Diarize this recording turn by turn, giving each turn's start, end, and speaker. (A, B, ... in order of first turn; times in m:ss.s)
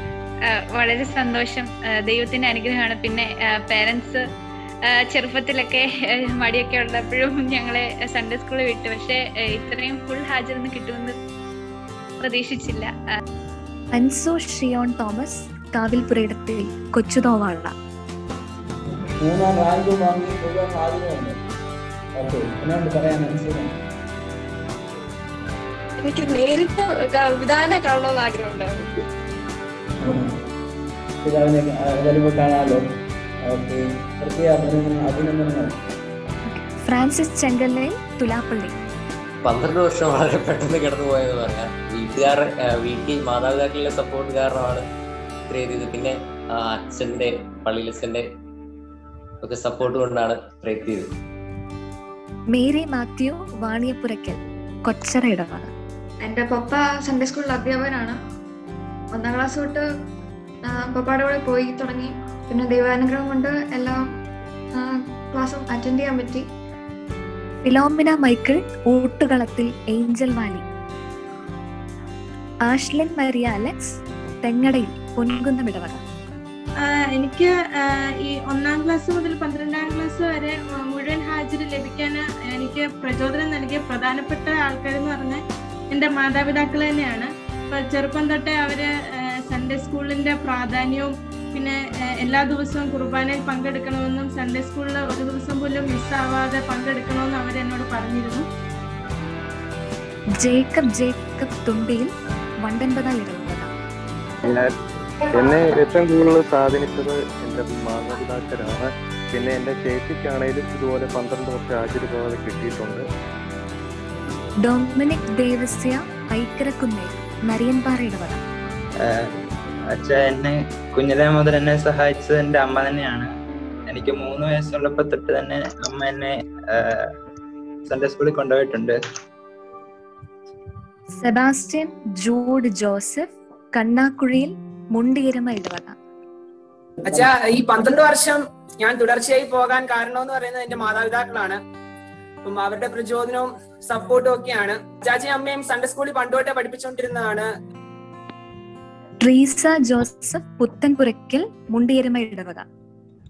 0:00.8-0:04.2 A
0:05.1-0:05.8 A
0:06.4-0:11.1 A
0:12.2-0:12.9 A
0:13.9-0:17.7 B
0:19.2-0:21.4 C
0:22.2-0:23.7 C
0:30.0-0:30.4 C
0:31.2-0:32.8 C
0:33.4-0:35.8 C
0:36.5-0:38.7 B
0:39.4-0:44.8 D
0:45.5-0:48.2 D
0:49.4-0:51.1 D
0:52.5-0:55.7 B
0:56.2-0:58.2 E
0:59.1-0:59.8 E
1:00.6-1:04.1 E
1:04.7-1:06.5 E
1:07.6-1:10.6 B
1:12.7-1:16.0 B
1:16.8-1:38.5 F
1:40.4-1:42.1 B
1:42.6-1:43.7 B
1:45.3-1:53.0 G
1:54.6-1:58.4 B
1:59.9-2:03.3 H
2:03.9-2:07.0 H
2:07.9-2:09.0 H
2:11.2-2:16.0 B
2:17.0-2:21.6 I
2:22.4-2:27.5 I
2:29.2-2:32.6 B